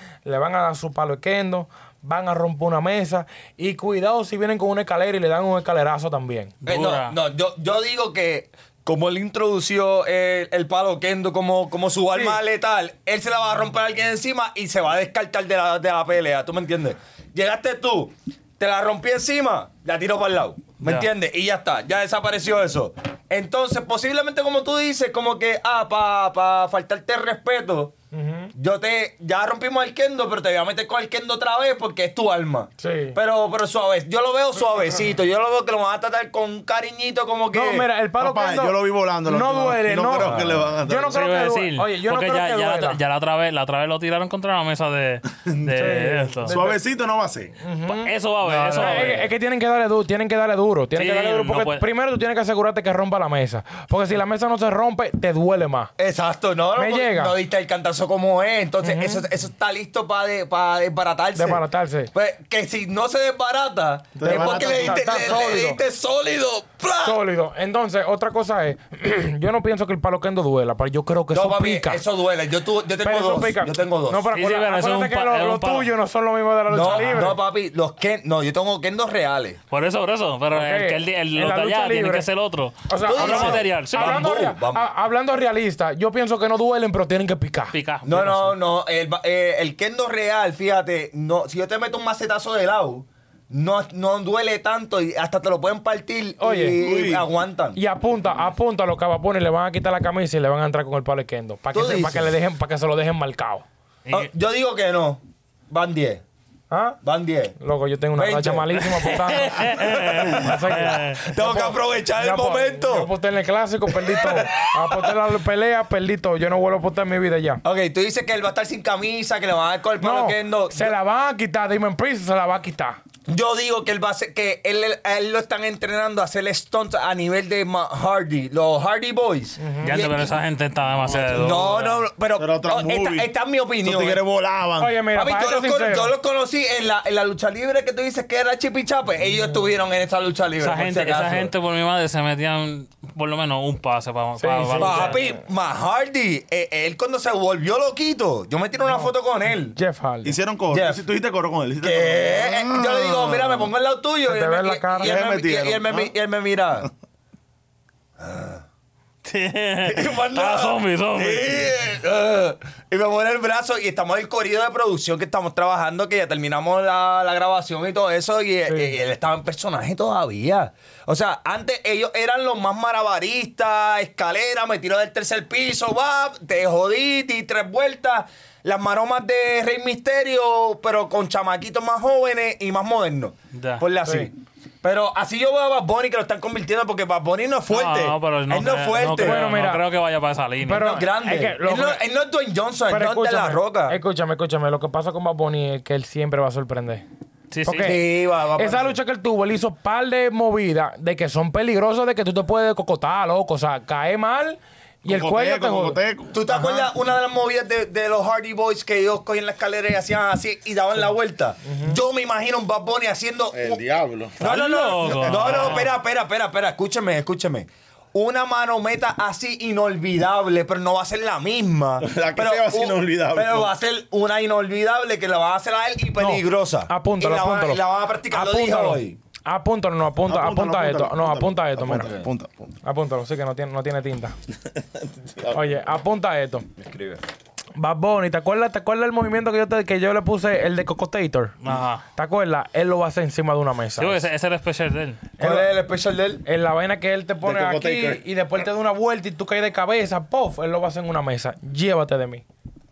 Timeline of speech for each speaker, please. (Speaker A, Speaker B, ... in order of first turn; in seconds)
Speaker A: 0.2-6.5, 12.1-12.4, 28.1-28.5, 32.8-33.2, 37.5-43.0, 45.7-46.8, 47.6-48.1, 48.7-55.9, 56.8-57.4, 58.8-59.2, 61.4-62.1, 64.2-65.8, 67.0-72.0, 73.0-77.4, 80.5-82.3, 82.9-87.8, 96.4-96.8, 97.8-103.7, 106.7-107.0, 107.6-117.6, 120.0-123.0, 129.6-130.0, 134.8-136.1, 144.4-145.4, 148.9-149.1, 149.8-150.4, 154.3-155.2, 168.7-168.9, 184.1-184.3, 189.2-189.8, 190.6-192.0, 192.9-197.0, 197.6-206.0, 206.5-206.9, 211.7-212.0, 226.2-232.1, 232.8-234.3, 235.5-236.7, 237.8-241.6, 242.2-244.3, 245.4-245.7, 246.4-252.4
Speaker B: 6.6-7.2, 20.8-21.1, 41.1-46.5, 47.9-49.3, 51.0-51.8, 74.3-75.9, 76.8-77.3, 79.7-84.3, 87.7-88.6, 109.0-111.2, 129.8-132.0, 140.6-145.2, 159.2-161.7, 183.5-183.8, 187.7-191.0, 197.5-198.0, 214.4-215.9, 241.6-242.1, 244.0-245.2
Speaker C: 6.7-27.9, 28.6-37.9, 40.2-40.7, 48.5-49.2, 56.0-61.6, 62.1-67.2, 71.3-74.3, 76.7-79.6, 83.0-84.9, 88.0-97.8, 101.7-102.3, 104.1-106.2, 107.0-107.6, 108.2-113.1, 113.9-115.1, 117.6-120.9, 123.3-130.3, 131.3-134.2, 135.1-141.5, 144.8-149.8, 150.7-151.0, 151.8-156.9, 158.2-158.6, 159.8-189.4, 190.7-194.0, 197.8-198.9, 206.3-213.8, 214.4-229.2, 232.0-232.2, 236.8-237.2, 245.4-246.4
Speaker D: 38.2-41.2, 46.5-47.5, 64.2-65.4, 96.8-97.3, 131.0-133.3, 133.8-135.0, 150.2-153.7, 155.0-156.1, 205.1-206.4, 213.5-214.4, 215.0-215.8, 222.0-223.7, 230.3-232.7, 234.7-235.6, 247.4-248.2